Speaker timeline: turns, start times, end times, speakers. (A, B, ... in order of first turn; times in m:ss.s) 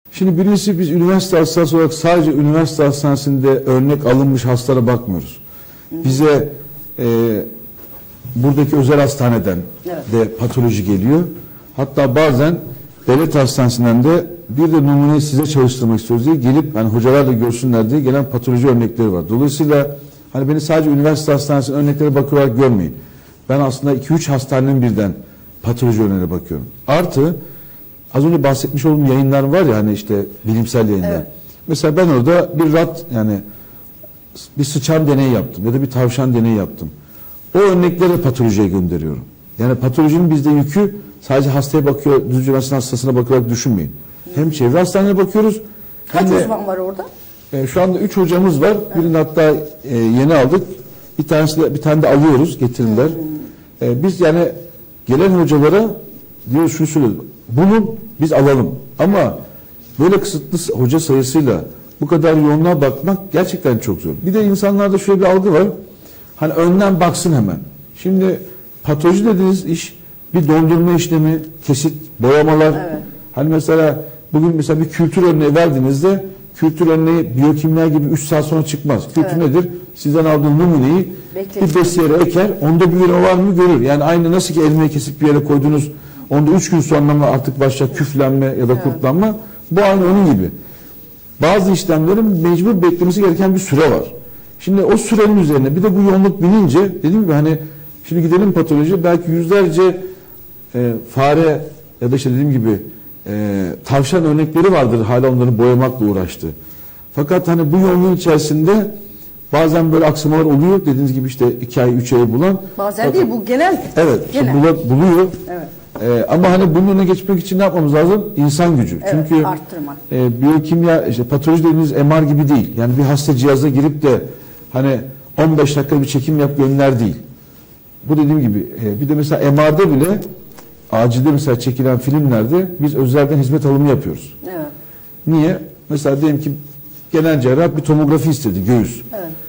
0:00.1-0:05.4 A
0:05.9-0:06.2 B
0:06.0-0:07.5 A
0:08.4-0:27.4 A
0:28.1-0:33.4 A
0:34.6-0:36.9 A
0:37.5-0:46.5 A
0:46.1-0:47.1 B
0:47.5-0:53.2 A
0:52.8-0:53.3 B
0:53.8-0:54.5 A
0:55.1-0:59.4 A
1:00.0-1:05.7 A
1:06.4-1:30.5 A
1:12.8-1:13.0 B
1:19.2-1:19.4 B
1:21.3-1:21.9 B
1:28.7-1:29.0 B
1:31.4-1:40.0 A
1:40.7-1:46.5 A
1:47.1-1:48.9 A
1:49.5-1:53.3 A
1:52.8-1:54.6 B
1:53.9-1:55.4 A
1:56.0-1:59.5 A
1:59.0-2:00.0 B
2:00.1-2:07.2 A
2:08.0-2:10.2 A
2:10.9-2:14.4 A
2:14.4-2:14.7 B
2:15.2-2:16.6 A
2:17.1-2:19.1 A